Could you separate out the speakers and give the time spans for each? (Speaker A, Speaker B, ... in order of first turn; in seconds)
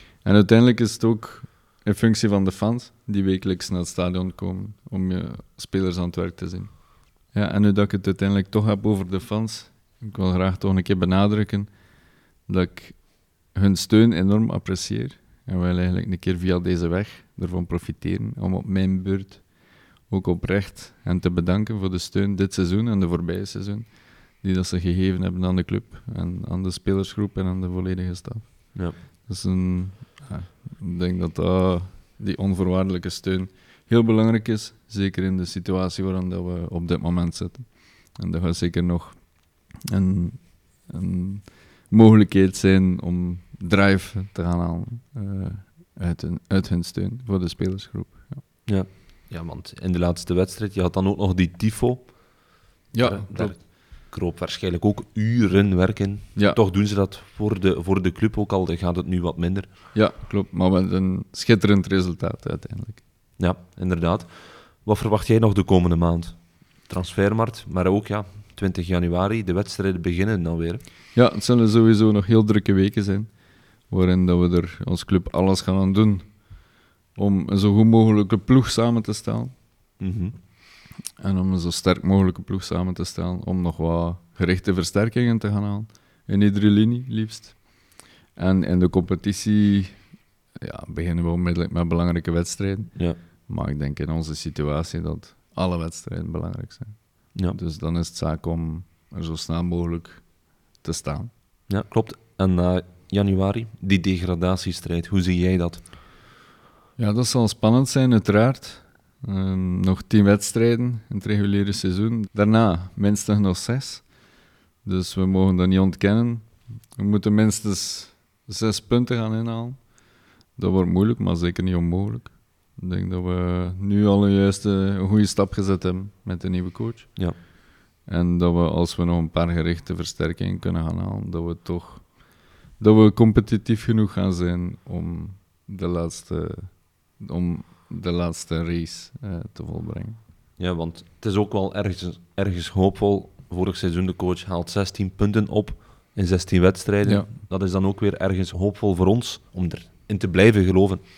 Speaker A: 0.2-11.7, 12.5-48.4, 52.9-53.6, 59.9-63.0, 71.1-76.5, 77.1-79.5, 81.2-90.0, 90.6-101.3, 107.0-114.1, 114.8-119.9, 120.5-127.4, 128.0-140.2
Speaker B: 48.6-59.7, 63.4-70.8, 80.0-80.3, 101.7-105.9, 140.6-151.0